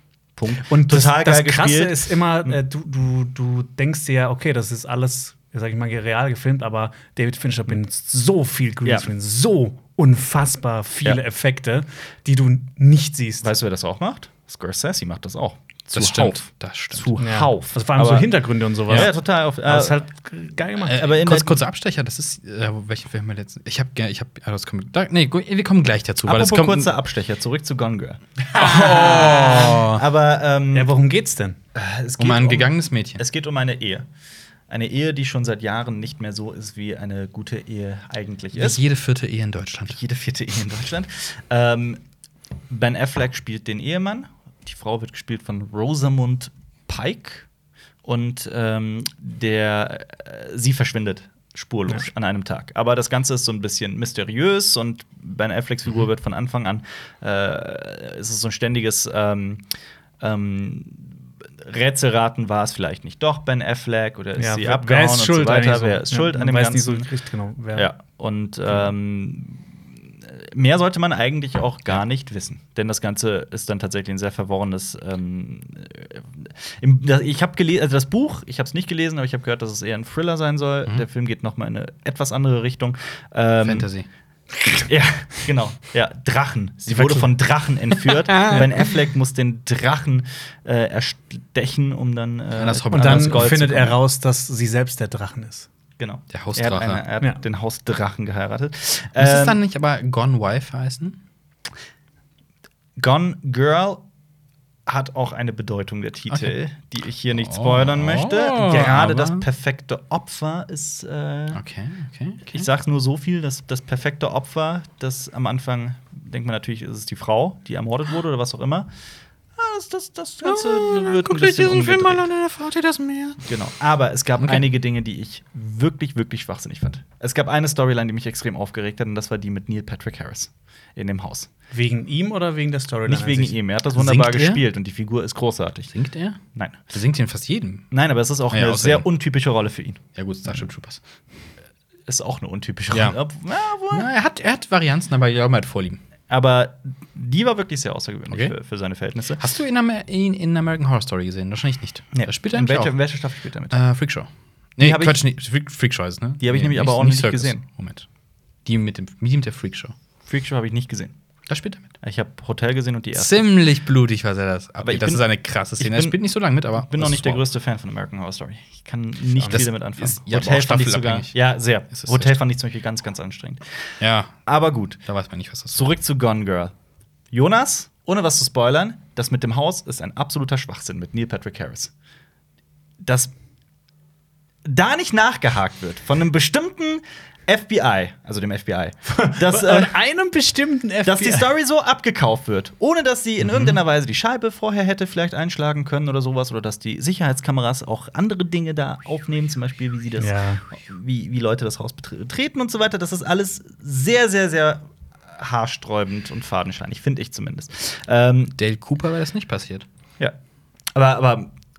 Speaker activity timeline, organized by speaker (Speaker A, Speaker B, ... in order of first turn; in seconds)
Speaker A: 0.4-2.6, 13.4-18.3, 18.9-20.0, 20.9-21.6, 26.2-30.9, 31.8-34.1, 34.7-38.8, 39.9-42.0, 42.7-47.5, 48.0-59.6, 60.2-67.1, 67.7-83.9, 84.8-94.0, 96.0-99.6, 103.0-104.0, 104.9-111.6, 112.5-118.9, 119.6-122.3, 123.4-131.5, 133.1-135.9, 136.5-136.8, 137.9-140.0, 142.1-144.1, 146.3-149.4, 152.1-153.8, 154.8-155.2, 156.4-157.6, 160.3-161.2, 162.0-163.5, 164.8-165.2, 165.8-166.2, 166.8-173.9, 174.5-175.0, 175.7-176.7, 177.3-181.9, 183.0-183.3, 184.7-189.9, 191.1-208.6, 210.9-211.5
Speaker B: 0.7-13.5, 17.2-21.2, 29.0-29.4, 30.7-31.6, 64.4-67.9, 86.9-87.3, 88.4-88.7, 92.9-95.7, 131.7-133.6, 189.2-191.5, 200.2-200.6
Speaker C: 15.9-17.1, 20.9-26.9, 28.5-30.0, 32.2-33.2, 38.5-40.0, 83.6-84.1, 92.6-93.5, 96.3-97.0, 99.2-101.2, 107.3-109.5, 111.5-112.7, 120.4-123.4, 124.4-124.7, 133.9-134.6, 135.9-137.9, 138.5-139.1, 140.2-141.0, 142.9-143.2, 143.9-146.0, 149.4-152.9, 153.7-158.1, 158.7-159.9, 161.5-161.9, 163.2-167.5, 169.4-171.3, 171.9-172.3, 174.0-174.5, 175.0-175.8, 193.4-193.8, 208.6-209.9